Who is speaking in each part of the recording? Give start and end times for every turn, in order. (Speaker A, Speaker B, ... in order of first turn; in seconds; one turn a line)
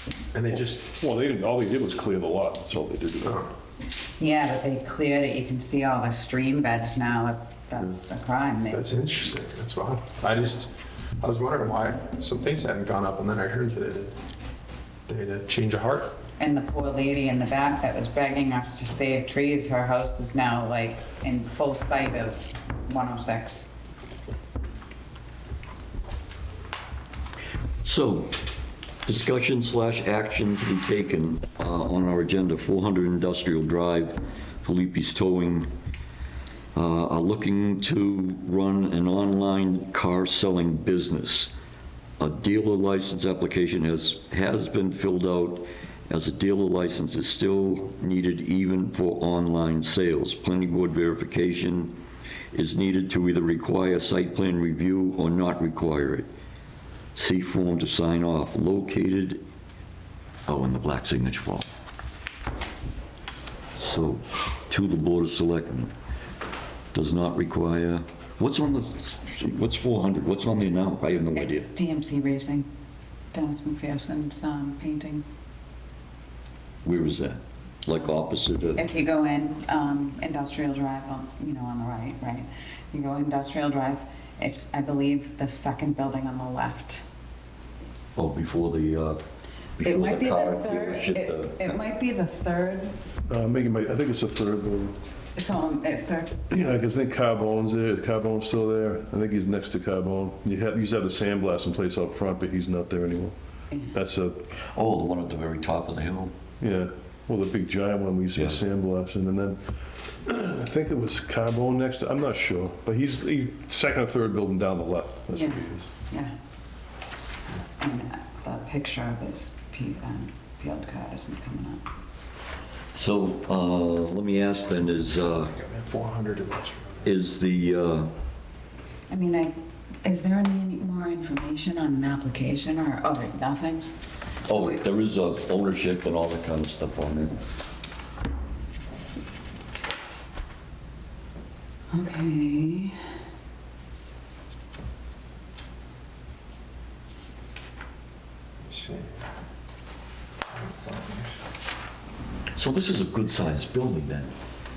Speaker A: 0.3-0.9
Speaker B: 0.8-3.4
Speaker A: 3.2-3.5
Speaker C: 4.2-8.9
Speaker A: 8.7-14.2
Speaker A: 15.1-16.1
Speaker C: 16.4-23.7
Speaker D: 27.8-28.4
Speaker D: 29.1-35.7
Speaker D: 36.7-41.5
Speaker D: 42.2-52.0
Speaker D: 52.5-56.3
Speaker D: 57.1-59.4
Speaker D: 60.5-61.6
Speaker D: 63.8-65.9
Speaker D: 66.9-71.7
Speaker C: 71.3-72.7
Speaker C: 73.3-75.2
Speaker D: 76.8-78.8
Speaker C: 78.8-87.0
Speaker D: 88.1-89.2
Speaker D: 89.8-91.8
Speaker C: 89.8-93.0
Speaker B: 93.3-95.0
Speaker C: 95.3-96.4
Speaker B: 96.5-103.3
Speaker B: 103.9-104.4
Speaker D: 104.7-106.3
Speaker B: 106.6-109.6
Speaker D: 108.3-108.6
Speaker B: 110.2-115.9
Speaker C: 115.3-116.3
Speaker C: 117.8-121.8
Speaker D: 122.9-125.5
Speaker A: 125.5-127.1
Speaker D: 127.0-128.1
Speaker C: 129.1-133.9
Speaker D: 134.4-137.4
Speaker C: 134.5-134.8
Speaker C: 141.9-142.9
Speaker A: 148.7-149.1
Speaker A: 150.5-151.3
Speaker D: 152.5-154.3